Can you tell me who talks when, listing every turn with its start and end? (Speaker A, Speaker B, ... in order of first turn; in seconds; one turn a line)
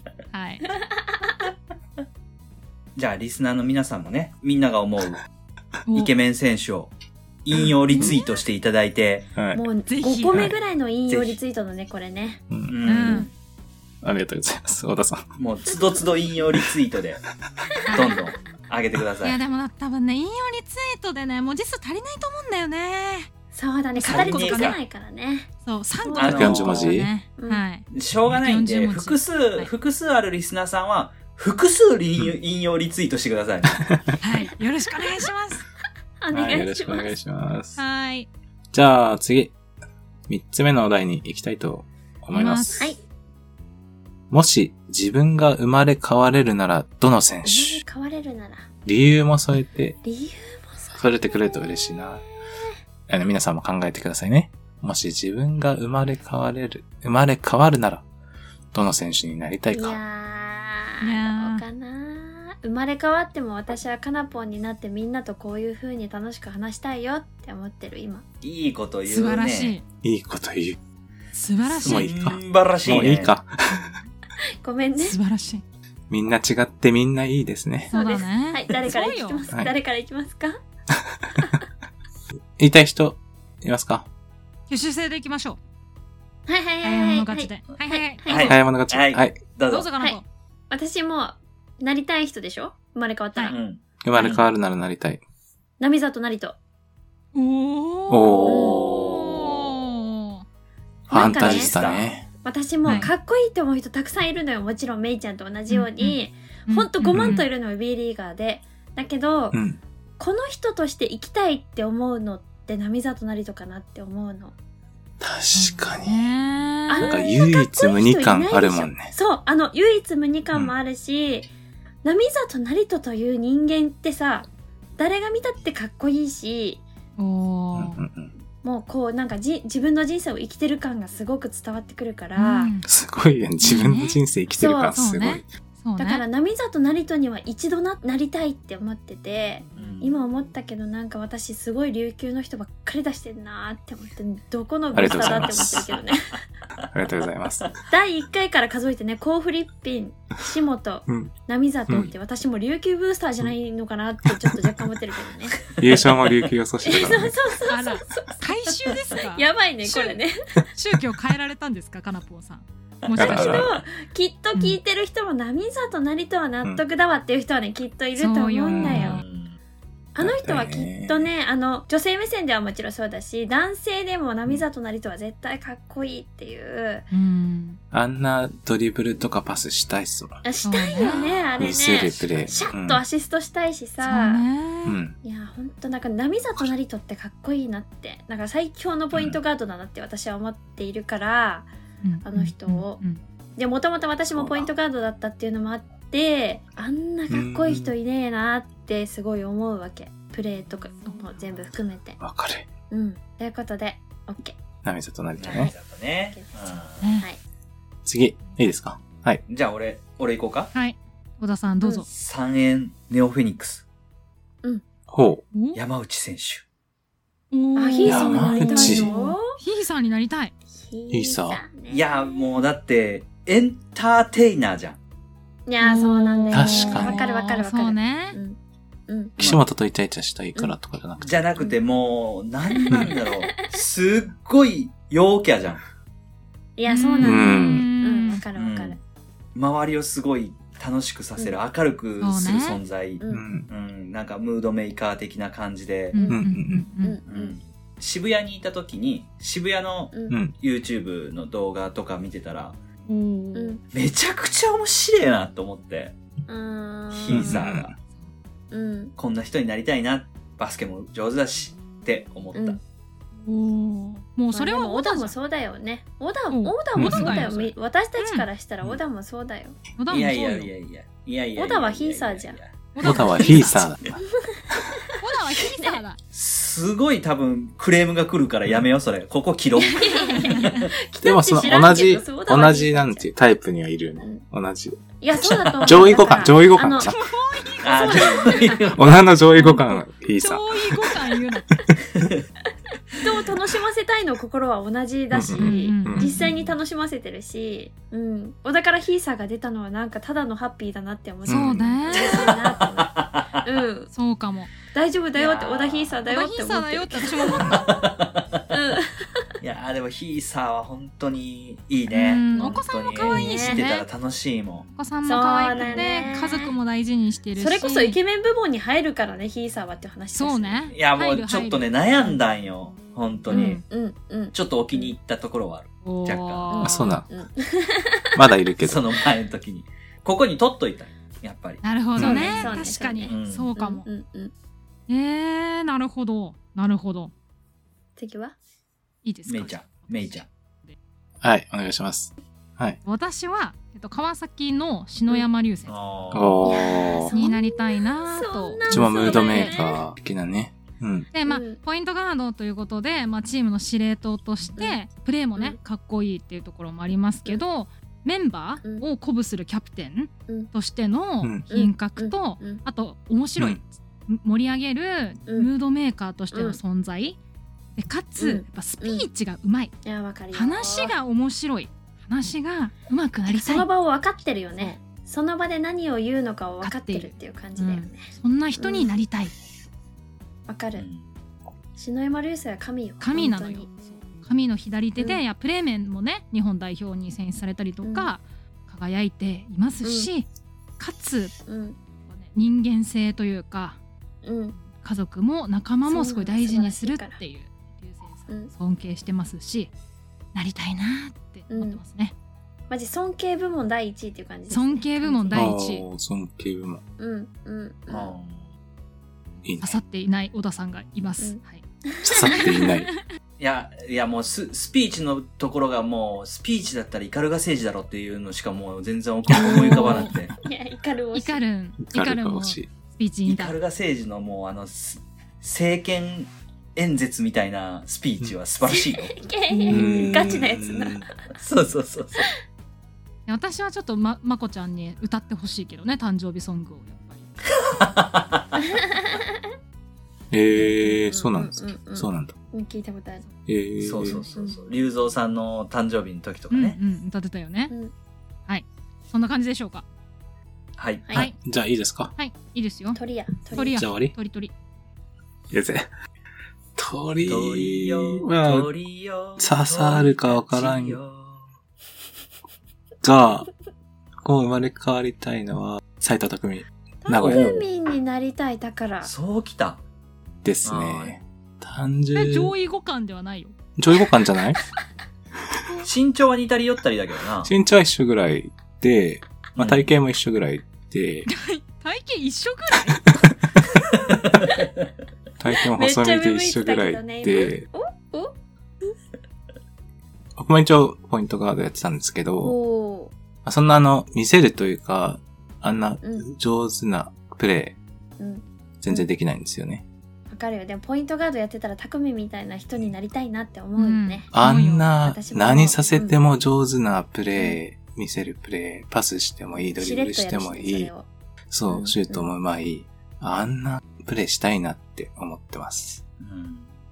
Speaker A: 0.3-0.7
Speaker B: 0.7-1.2
Speaker C: 3.0-5.2
Speaker A: 5.9-6.1
Speaker C: 5.9-6.9
Speaker C: 7.4-9.3
Speaker D: 9.3-9.6
Speaker B: 9.5-12.4
Speaker A: 9.9-10.5
Speaker D: 10.3-10.5
Speaker C: 11.1-11.4
Speaker D: 12.5-12.8
Speaker C: 12.7-13.3
Speaker A: 12.8-13.3
Speaker D: 14.0-15.2
Speaker C: 15.4-17.2
Speaker A: 17.9-18.2
Speaker B: 17.9-18.2
Speaker C: 17.9-19.4
Speaker A: 19.2-23.3
Speaker B: 23.5-25.5
Speaker A: 23.9-24.8
Speaker C: 24.0-24.8
Speaker A: 25.6-29.7
Speaker B: 26.0-26.6
Speaker C: 26.1-26.9
Speaker D: 26.3-27.1
Speaker B: 27.4-27.6
Speaker C: 27.9-33.9
Speaker D: 33.8-34.1
Speaker A: 34.2-35.6
Speaker B: 36.2-37.1
Speaker D: 36.3-37.8
Speaker A: 37.8-38.3
Speaker D: 38.7-39.5
Speaker D: 40.3-42.9
Speaker A: 42.3-42.9
Speaker D: 44.3-47.8
Speaker B: 47.4-48.7
Speaker D: 48.9-50.0
Speaker B: 50.0-52.0
Speaker D: 50.9-52.2
Speaker D: 53.1-58.0
Speaker D: 58.7-60.0
Speaker B: 59.7-68.2
Speaker A: 61.0-61.6
Speaker C: 68.4-69.8
Speaker A: 69.0-69.8
Speaker D: 70.0-70.8
Speaker A: 71.3-72.1
Speaker C: 71.6-73.3
Speaker D: 71.8-73.9
Speaker A: 73.7-74.1
Speaker B: 74.6-75.2
Speaker A: 75.0-75.6
Speaker D: 76.1-77.9
Speaker A: 77.9-79.5
Speaker B: 77.9-80.6
Speaker D: 80.9-81.5
Speaker D: 82.6-84.0
Speaker A: 84.7-85.6
Speaker B: 86.5-88.5
Speaker A: 86.8-88.5
Speaker C: 88.2-89.9
Speaker D: 88.4-89.4
Speaker A: 89.7-90.2
Speaker B: 90.0-93.6
Speaker C: 93.5-94.5
Speaker D: 94.0-95.2
Speaker A: 94.1-94.4
Speaker B: 95.8-96.5
Speaker A: 97.3-100.4
Speaker D: 98.1-98.8
Speaker C: 98.4-99.7
Speaker B: 98.4-98.9
Speaker D: 101.1-102.2
Speaker B: 101.1-101.7
Speaker A: 101.1-101.7
Speaker C: 101.2-102.1
Speaker B: 102.4-109.6
Speaker A: 102.8-103.1
Speaker A: 105.7-107.5
Speaker D: 107.1-107.4
Speaker D: 109.5-109.8
Speaker B: 110.2-114.5
Speaker D: 115.2-116.2
Speaker A: 115.5-117.2
Speaker B: 116.9-121.5
Speaker D: 117.0-119.1
Speaker B: 122.0-126.8
Speaker A: 127.2-128.0
Speaker D: 127.7-128.3
Speaker B: 128.6-132.7
Speaker A: 132.3-132.8
Speaker D: 132.8-135.4
Speaker A: 133.6-134.2
Speaker B: 134.6-135.0
Speaker A: 134.9-136.2
Speaker B: 136.0-146.3
Speaker C: 139.8-140.1
Speaker D: 144.9-146.0
Speaker D: 146.9-147.7
Speaker B: 147.9-155.6
Speaker D: 151.1-151.3
Speaker D: 155.8-157.4
Speaker C: 156.0-156.5
Speaker B: 156.8-160.3
Speaker A: 157.7-160.2
Speaker A: 160.8-163.7
Speaker C: 163.0-163.6
Speaker D: 163.2-163.7
Speaker B: 163.3-169.2
Speaker A: 168.2-169.2
Speaker D: 168.7-169.1
Speaker C: 169.0-169.6
Speaker B: 170.1-177.1
Speaker D: 170.2-171.3
Speaker A: 177.1-177.8
Speaker D: 177.9-180.4
Speaker B: 180.4-184.4
Speaker A: 180.6-181.2
Speaker C: 181.0-182.6
Speaker D: 181.0-183.0
Speaker A: 184.0-185.0
Speaker D: 184.8-185.2
Speaker B: 185.2-191.7
Speaker A: 192.0-193.2
Speaker B: 192.2-193.0
Speaker B: 193.6-202.2
Speaker D: 194.3-194.7
Speaker D: 197.3-197.9
Speaker A: 201.0-201.5
Speaker D: 202.2-202.7
Speaker B: 202.9-204.6
Speaker D: 204.8-205.7
Speaker C: 205.4-207.1
Speaker A: 207.0-207.3
Speaker D: 208.1-209.4
Speaker C: 209.5-210.7
Speaker A: 210.7-212.1
Speaker C: 212.1-213.8
Speaker D: 215.1-215.4
Speaker A: 215.5-215.8
Speaker C: 215.7-216.6
Speaker A: 217.5-220.5
Speaker B: 217.7-219.5
Speaker D: 218.0-219.1
Speaker B: 220.7-222.1
Speaker D: 221.1-221.6
Speaker C: 221.9-225.0
Speaker B: 225.7-228.6
Speaker A: 225.8-228.4
Speaker D: 226.5-227.2
Speaker B: 229.1-229.3
Speaker D: 229.4-231.3
Speaker C: 231.2-235.8
Speaker B: 232.7-233.7
Speaker B: 236.8-239.0
Speaker A: 236.9-238.4
Speaker D: 237.2-237.9
Speaker C: 238.6-239.0
Speaker C: 239.5-246.2
Speaker A: 242.2-242.8
Speaker B: 243.2-243.4
Speaker D: 243.3-243.7
Speaker A: 246.1-247.2
Speaker B: 246.1-246.5
Speaker D: 246.3-246.9
Speaker B: 247.0-247.6
Speaker C: 247.3-252.8
Speaker A: 253.1-253.8
Speaker B: 253.5-253.8
Speaker C: 253.9-256.1
Speaker B: 256.5-257.6
Speaker C: 257.1-257.9
Speaker D: 257.3-257.9
Speaker B: 258.7-259.1
Speaker C: 259.2-262.8
Speaker B: 262.5-262.8
Speaker A: 263.4-265.3
Speaker B: 264.5-269.8
Speaker A: 266.5-267.5
Speaker D: 266.9-267.5
Speaker C: 267.2-267.7
Speaker A: 268.2-268.5
Speaker A: 270.0-270.7
Speaker C: 270.1-273.2
Speaker B: 271.6-272.6
Speaker A: 272.9-274.0
Speaker D: 273.0-274.8
Speaker B: 274.3-276.0
Speaker A: 275.2-276.2
Speaker C: 276.3-280.9
Speaker B: 279.8-283.3
Speaker A: 279.9-280.8
Speaker D: 281.2-287.3
Speaker B: 285.2-287.1
Speaker A: 287.0-289.0
Speaker C: 287.8-289.2
Speaker B: 287.9-288.8
Speaker D: 288.9-291.1
Speaker A: 289.5-291.9
Speaker C: 292.1-292.4
Speaker B: 293.2-304.1
Speaker D: 295.3-296.4
Speaker A: 295.6-296.5
Speaker D: 301.5-302.0
Speaker A: 301.5-302.6
Speaker C: 302.1-303.5
Speaker A: 304.1-304.7
Speaker B: 304.9-307.9
Speaker C: 305.4-306.2
Speaker A: 306.3-307.9
Speaker C: 307.7-308.5
Speaker B: 308.7-309.4
Speaker C: 309.6-314.9
Speaker A: 312.1-314.1
Speaker B: 312.5-313.8
Speaker A: 314.9-318.2
Speaker B: 315.2-316.7
Speaker C: 315.7-316.2
Speaker B: 317.5-320.9
Speaker A: 320.3-321.9
Speaker C: 320.9-323.8
Speaker A: 323.5-323.8
Speaker B: 323.5-325.1
Speaker C: 324.5-326.7
Speaker A: 326.0-327.2
Speaker B: 326.7-328.4
Speaker D: 326.8-327.2
Speaker D: 328.3-329.1
Speaker C: 328.8-331.8
Speaker A: 331.8-334.0
Speaker D: 332.1-332.7
Speaker B: 332.2-334.5
Speaker C: 333.2-333.7
Speaker A: 335.1-337.3
Speaker B: 338.2-338.5
Speaker A: 339.2-340.9
Speaker C: 339.4-340.5
Speaker D: 341.4-343.0
Speaker A: 343.0-345.9
Speaker C: 345.9-346.6
Speaker D: 346.3-347.3
Speaker B: 346.6-350.0
Speaker A: 347.3-349.8
Speaker D: 348.9-351.3
Speaker A: 351.3-367.4
Speaker B: 351.4-351.8
Speaker B: 361.7-362.8
Speaker B: 366.5-366.8
Speaker A: 368.0-369.9
Speaker B: 368.4-369.3
Speaker B: 370.0-371.1
Speaker A: 370.5-373.9
Speaker B: 373.5-378.2
Speaker A: 376.8-379.5
Speaker B: 378.8-379.1
Speaker B: 380.7-381.1
Speaker C: 380.9-381.2
Speaker B: 381.9-383.9
Speaker A: 383.2-390.5
Speaker B: 388.0-388.3
Speaker B: 390.0-390.3
Speaker A: 391.0-391.6
Speaker B: 391.7-392.0
Speaker A: 392.2-394.0
Speaker B: 394.4-394.8
Speaker A: 394.8-399.9
Speaker B: 396.1-397.4
Speaker A: 400.5-402.3
Speaker B: 401.7-402.0
Speaker B: 402.9-405.7
Speaker A: 404.7-406.0
Speaker D: 405.5-407.0
Speaker B: 407.2-408.3
Speaker C: 408.1-408.7
Speaker D: 409.6-410.0
Speaker A: 409.8-411.8
Speaker B: 411.4-412.7
Speaker D: 412.2-413.1
Speaker A: 412.4-413.1
Speaker C: 413.6-420.5
Speaker D: 419.5-419.8
Speaker A: 419.5-420.4
Speaker B: 419.8-421.6
Speaker A: 421.3-423.8
Speaker D: 422.1-422.9
Speaker C: 423.4-429.4
Speaker B: 428.9-431.3
Speaker A: 429.7-430.4
Speaker D: 429.9-431.3
Speaker C: 431.6-432.5
Speaker A: 433.4-437.5
Speaker C: 437.7-438.8
Speaker B: 438.8-439.6
Speaker D: 440.5-442.5
Speaker B: 440.7-443.4
Speaker D: 443.7-444.4
Speaker C: 444.0-447.0
Speaker A: 446.7-447.9
Speaker A: 448.7-450.0
Speaker C: 451.0-451.3
Speaker D: 451.3-452.3
Speaker A: 452.4-453.2
Speaker B: 453.1-454.0
Speaker A: 453.7-454.7
Speaker D: 453.8-454.3
Speaker D: 455.7-456.1
Speaker D: 456.9-458.9
Speaker C: 457.5-461.7
Speaker D: 459.6-461.2
Speaker D: 463.2-463.7
Speaker D: 464.4-467.7
Speaker B: 467.2-469.3
Speaker C: 467.4-467.8
Speaker C: 469.2-470.0
Speaker D: 470.6-472.7
Speaker C: 470.8-471.4
Speaker A: 472.3-473.7
Speaker D: 474.0-474.8
Speaker C: 476.0-477.7
Speaker D: 477.6-481.5
Speaker C: 479.7-480.1
Speaker A: 481.5-484.2
Speaker C: 484.2-484.7
Speaker D: 485.6-487.9
Speaker B: 485.9-488.5
Speaker D: 490.6-492.8
Speaker B: 492.6-493.3
Speaker D: 493.6-497.9
Speaker B: 498.4-499.2
Speaker D: 499.0-500.0
Speaker B: 500.5-504.5
Speaker A: 504.0-505.1
Speaker D: 504.5-511.1
Speaker B: 505.2-506.4
Speaker B: 510.0-511.2
Speaker D: 511.7-516.2
Speaker B: 511.9-512.5
Speaker C: 516.4-516.9